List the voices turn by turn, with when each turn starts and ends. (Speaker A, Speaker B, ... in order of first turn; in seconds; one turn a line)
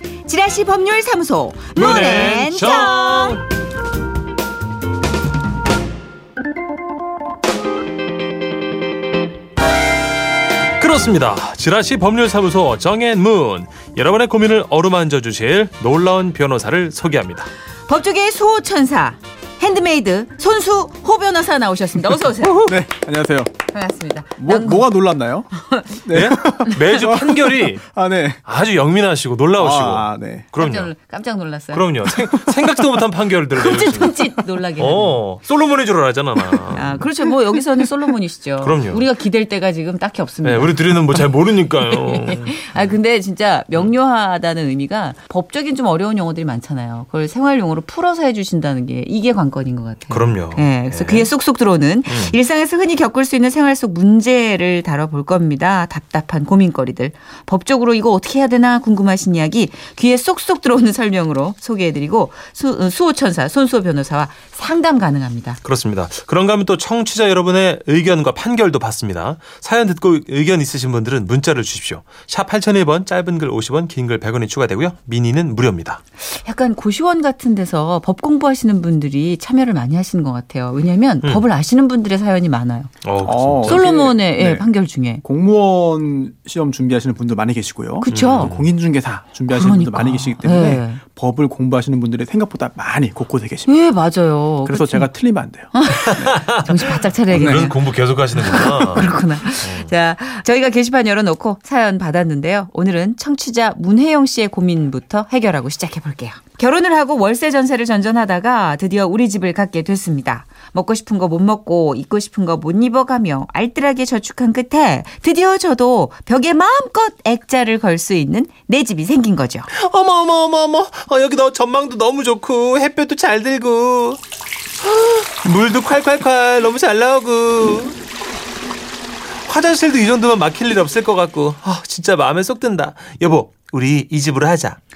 Speaker A: 0.2-3.4
Speaker B: 1.7-3.4
Speaker B: 10.8-17.5
Speaker A: 17.9-22.8
Speaker C: 22.4-23.5
Speaker A: 23.7-24.9
Speaker C: 24.4-28.4
Speaker A: 25.5-26.0
Speaker B: 26.1-27.8
Speaker B: 28.4-30.9
Speaker C: 29.6-30.5
Speaker A: 30.6-31.9
Speaker B: 31.7-34.1
Speaker C: 32.2-32.7
Speaker A: 33.5-35.2
Speaker B: 34.8-37.0
Speaker A: 36.7-41.3
Speaker B: 38.6-39.0
Speaker B: 40.4-42.6
Speaker A: 41.8-65.6
Speaker B: 50.1-51.3
Speaker B: 52.1-52.4
Speaker B: 65.6-76.0
Speaker A: 76.2-82.9
Speaker B: 83.0-83.8
Speaker C: 83.2-84.7
Speaker A: 83.6-85.2
Speaker C: 85.2-93.7
Speaker A: 88.0-88.5
Speaker B: 88.1-88.7
Speaker A: 89.5-91.0
Speaker A: 93.7-95.1
Speaker C: 94.7-96.4
Speaker A: 95.7-97.8
Speaker B: 96.1-99.9
Speaker C: 97.3-97.7
Speaker A: 98.3-119.7
Speaker C: 98.4-99.0
Speaker B: 119.7-124.2
Speaker B: 124.8-128.0
Speaker B: 129.4-134.8